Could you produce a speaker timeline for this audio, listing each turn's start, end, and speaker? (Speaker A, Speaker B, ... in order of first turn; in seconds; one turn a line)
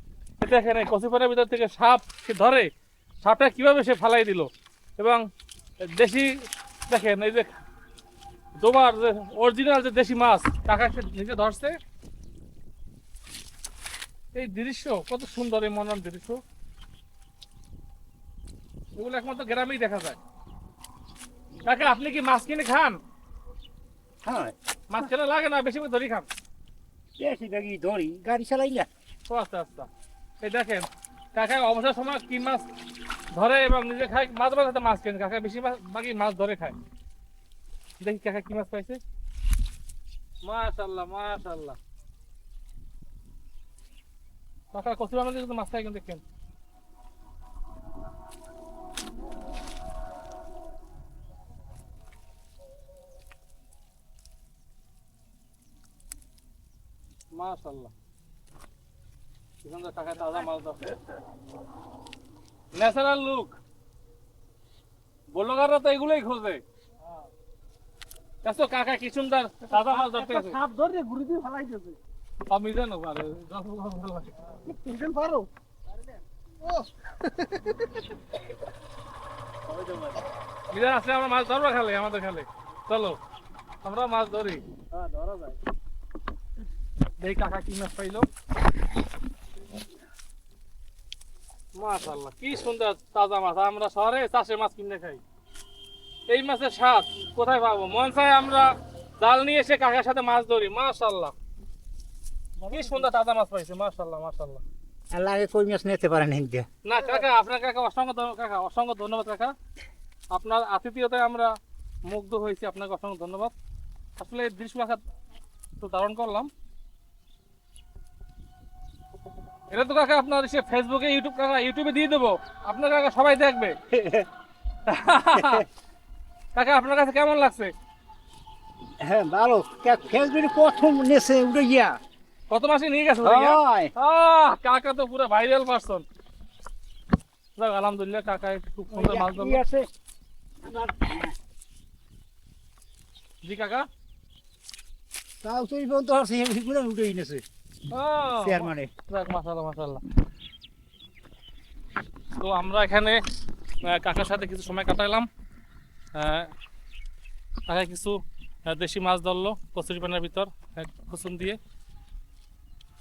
Speaker A: 0.4-2.7
Speaker A: 3.2-5.2
Speaker A: 5.8-7.6
Speaker A: 8.6-11.7
Speaker A: 14.3-16.4
Speaker A: 18.9-20.2
Speaker A: 21.6-23.0
Speaker B: 24.2-24.5
Speaker A: 24.9-26.3
Speaker B: 27.2-28.9
Speaker A: 29.3-29.9
Speaker A: 30.4-32.6
Speaker A: 33.3-36.8
Speaker A: 38.0-39.0
Speaker A: 40.4-41.8
Speaker A: 44.7-46.2
Speaker A: 57.3-57.9
Speaker A: 59.6-61.0
Speaker A: 62.7-63.6
Speaker A: 65.3-66.6
Speaker A: 68.4-70.6
Speaker C: 70.1-71.9
Speaker B: 70.7-70.9
Speaker A: 72.5-74.5
Speaker C: 74.6-75.5
Speaker C: 76.6-78.1
Speaker C: 79.7-80.1
Speaker A: 80.7-83.2
Speaker A: 83.8-85.5
Speaker A: 87.2-88.3
Speaker A: 91.8-95.2
Speaker A: 96.3-101.3
Speaker C: 102.7-102.9
Speaker A: 102.7-104.6
Speaker B: 105.1-106.7
Speaker A: 106.8-109.5
Speaker A: 110.3-111.5
Speaker A: 112.0-113.5
Speaker A: 114.2-115.0
Speaker A: 115.8-116.5
Speaker A: 119.7-123.8
Speaker B: 123.9-124.3
Speaker A: 124.8-125.6
Speaker B: 125.3-125.6
Speaker A: 126.5-127.7
Speaker B: 129.0-132.0
Speaker A: 132.5-136.0
Speaker B: 133.2-133.9
Speaker A: 137.6-139.6
Speaker B: 138.9-139.9
Speaker B: 140.6-141.3
Speaker A: 143.4-143.9
Speaker B: 145.4-147.4
Speaker A: 147.9-150.0
Speaker B: 148.4-148.9
Speaker A: 152.3-153.2
Speaker A: 153.8-155.3
Speaker A: 156.1-156.5
Speaker A: 157.7-161.6